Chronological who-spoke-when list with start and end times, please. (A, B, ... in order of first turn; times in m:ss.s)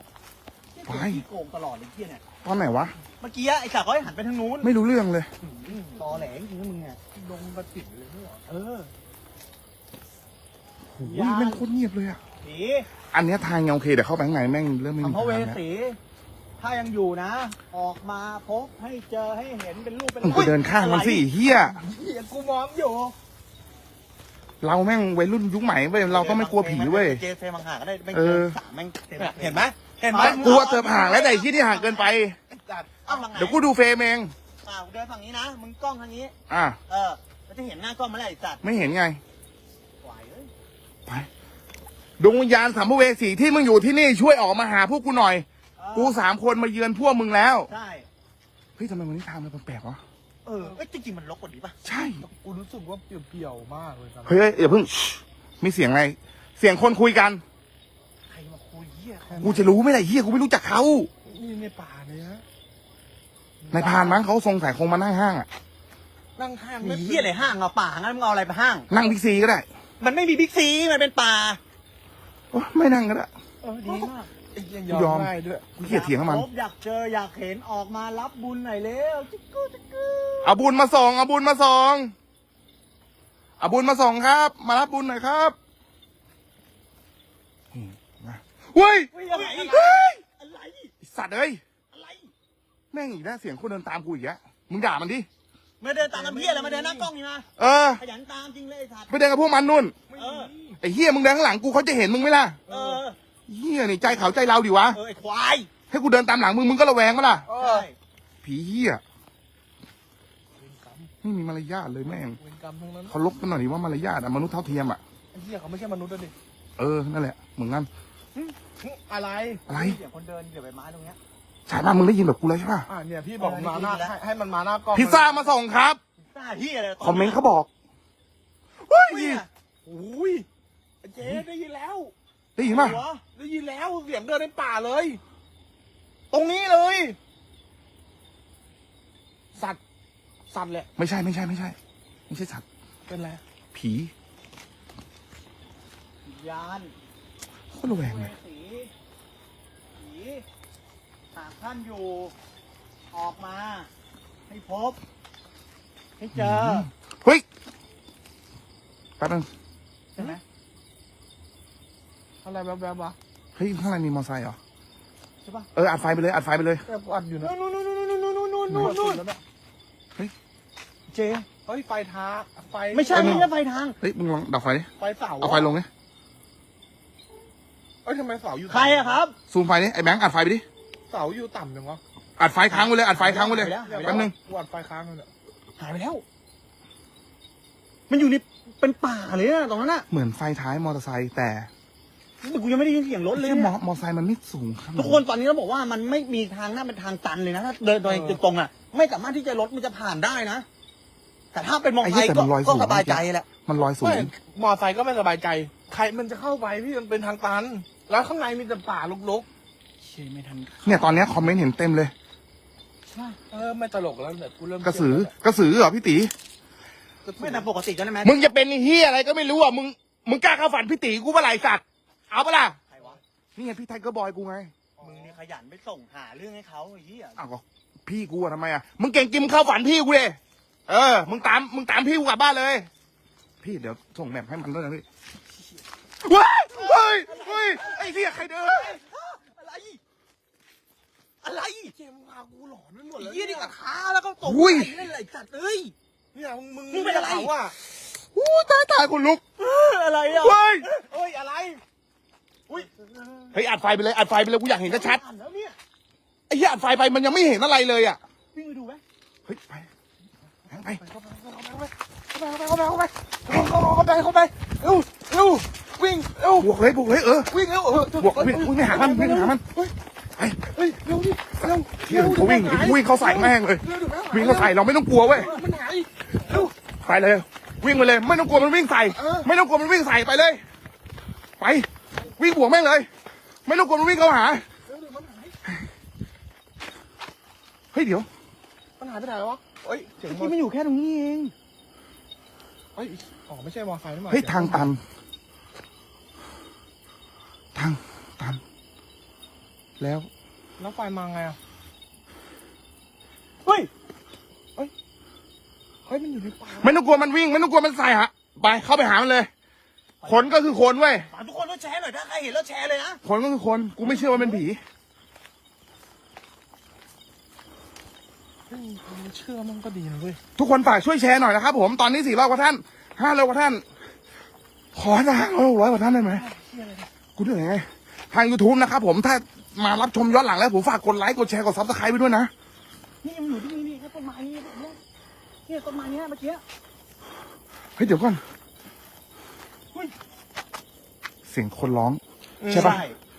0:00.7-0:02.2 A
0:00.9-0:01.2 B
0:02.4-0:02.9 B
0:03.2-0:04.7 A
0:04.6-0:05.3 B
0:05.4-0:07.0 A
0:05.7-0:06.0 C
0:07.1-0:08.4 C
0:08.5-0:08.9 A
0:10.9-0:12.2 B
0:11.0-0:11.6 A
0:12.4-0:12.9 A
0:13.1-0:15.6 B
0:15.0-0:16.0 A
0:16.6-0:21.3 A
0:20.2-0:21.8 B
0:21.5-0:23.1 C
0:24.6-0:27.2 B
0:26.1-0:32.1 A
0:28.1-0:28.6 B
0:29.2-0:31.1 C
0:30.2-0:32.4 B
0:32.5-0:33.3 C
0:33.0-0:33.6 A
0:33.3-0:34.3 B
0:34.6-0:36.3 A
0:36.5-0:36.8 B
0:36.9-0:38.6 A
0:38.6-0:39.2 B
0:40.0-0:40.5 A
0:42.2-0:47.7 B
0:45.8-0:46.2 A
0:47.7-0:48.1 A
0:48.8-0:50.0 B
0:50.4-0:51.8 A
0:51.8-0:52.2 B
0:51.9-0:54.5 C
0:54.2-0:57.4 B
0:58.3-0:59.6 A
0:59.3-0:59.7 C
0:59.4-1:01.1 B
1:01.2-1:02.4 C
1:03.6-1:04.2 C
1:03.7-1:05.5 B
1:06.4-1:07.5 C
1:06.8-1:08.9 A
1:08.9-1:09.6 B
1:10.0-1:11.6 A
1:12.5-1:13.3 B
1:13.6-1:15.7 C
1:13.8-1:14.3 A
1:14.9-1:16.5 B
1:15.8-1:20.6 A
1:20.4-1:22.1 B
1:23.6-1:25.6 B
1:27.7-1:29.1 B
1:29.1-1:30.9 A
1:29.2-1:30.0 C
1:29.7-1:30.2 B
1:31.0-1:31.6 B
1:31.9-1:32.3 A
1:32.9-1:35.3 B
1:35.8-1:37.4 A
1:36.0-1:37.1 C
1:37.6-1:38.0 B
1:38.0-1:39.1 A
1:39.1-1:40.0 B
1:40.1-1:40.8 C
1:40.1-1:40.5 A
1:40.8-1:42.6 B
1:42.7-1:43.0 C
1:42.7-1:43.2 A
1:43.5-1:45.0 B
1:44.9-1:45.7 A
1:45.9-1:47.5 B
1:47.4-1:47.9 C
1:47.6-1:48.0 A
1:48.4-1:49.0 B
1:50.6-1:51.1 C
1:51.2-1:52.4 B
1:52.4-1:53.2 C
1:53.1-1:55.0 B
1:55.3-1:56.3 C
1:56.8-1:57.9 B
1:58.8-1:59.6 C
1:59.7-2:00.0 B
1:59.7-2:01.2 A
2:01.7-2:02.9 B
2:02.9-2:05.5 C
2:03.4-2:04.2 A
2:04.9-2:06.0 B
2:06.2-2:07.4 A
2:07.0-2:07.7 B
2:08.9-2:10.4 C
2:09.0-2:09.5 A
2:11.0-2:12.1 C
2:12.6-2:13.0 B
2:12.6-2:13.2 A
2:13.3-2:15.2 C
2:16.3-2:17.2 C
2:19.5-2:19.8 C
2:20.5-2:20.9 C
2:21.0-2:21.8 B
2:22.3-2:22.6 B
2:23.1-2:23.4 C
2:23.7-2:24.1 B
2:26.2-2:26.9 A
2:27.7-2:28.3 B
2:27.8-2:28.9 A
2:30.0-2:30.4 A
2:31.3-2:32.3 A
2:33.1-2:33.9 A
2:34.5-2:35.0 A
2:36.2-2:36.9 A
2:36.3-2:37.4 B
2:39.2-2:39.5 B
2:40.2-2:40.4 A
2:42.4-2:43.2 C
2:43.6-2:44.6 B
2:45.7-2:46.8 B
2:46.8-2:47.5 C
2:47.4-2:49.2 A
2:48.7-2:48.9 B
2:48.7-2:49.4 C
2:51.1-2:51.5 A
2:51.6-2:53.4 C
2:52.9-2:54.0 A
2:53.1-2:55.9 B
2:55.0-2:55.7 C
2:58.0-2:59.2 C
2:58.7-2:59.4 A
2:59.5-3:00.6 B
3:01.1-3:02.0 C
3:02.4-3:04.3 B
3:02.8-3:04.3 A
3:03.2-3:05.3 C
3:05.8-3:06.2 A
3:08.1-3:10.1 A
3:10.1-3:11.7 B
3:12.4-3:13.7 A
3:13.3-3:15.2 B
3:15.0-3:20.6 A
3:18.0-3:18.4 C
3:21.5-3:23.4 A
3:22.0-3:24.3 B
3:24.0-3:29.4 C
3:30.0-3:31.6 A
3:30.8-3:32.1 B
3:33.1-3:33.4 A
3:33.5-3:35.3 C
3:34.8-3:36.3 B
3:37.2-3:37.6 C
3:37.4-3:38.5 A
3:38.2-3:42.8 B
3:42.9-3:43.2 A
3:43.5-3:44.7 B
3:45.0-3:45.4 C
3:45.0-3:47.4 A
3:47.4-3:52.9 B
3:53.6-3:55.0 B
3:56.2-3:59.0 B
3:57.2-3:57.9 C
3:57.2-3:58.0 A
3:58.6-4:00.0 A
4:01.4-4:01.9 A
4:01.9-4:03.7 C
4:03.2-4:05.9 A
4:04.4-4:05.1 B
4:06.3-4:07.8 C
4:06.9-4:07.5 A
4:08.1-4:09.4 B
4:09.6-4:11.1 A
4:10.3-4:10.9 B
4:11.0-4:11.8 C
4:12.7-4:13.5 A
4:13.5-4:15.2 B
4:14.8-4:15.8 A
4:16.5-4:18.2 B
4:18.5-4:19.0 A
4:19.4-4:19.9 B
4:20.6-4:26.7 C
4:20.7-4:21.0 B
4:26.6-4:27.5 B
4:27.5-4:29.9 C
4:28.2-4:29.6 B
4:30.6-4:36.7 C
4:31.9-4:35.5 B
4:36.4-4:40.6 B
4:39.1-4:39.5 C
4:41.6-4:43.1 B
4:43.6-4:44.6 B
4:44.9-4:45.6 C
4:47.9-4:48.3 B
4:49.0-4:50.5 C
4:50.3-4:51.5 A
4:52.9-4:54.9 C
4:54.3-4:55.0 B
4:57.7-4:58.6 B
5:00.0-5:00.3 B
5:00.8-5:01.6 C
5:03.6-5:03.9 A
5:06.0-5:07.0 C
5:06.8-5:09.5 B
5:10.2-5:10.6 A
5:10.2-5:11.3 B
5:11.3-5:13.2 A
5:13.2-5:14.8 B
5:14.0-5:14.6 C
5:18.7-5:20.4 C
5:20.6-5:23.8 B
5:24.9-5:26.4 B
5:26.3-5:27.1 A
5:26.4-5:26.7 C
5:27.4-5:32.5 B
5:33.2-5:35.0 A
5:35.7-5:36.6 A
5:38.0-5:38.4 B
5:41.4-5:43.0 B
5:42.6-5:43.0 C
5:42.7-5:43.2 A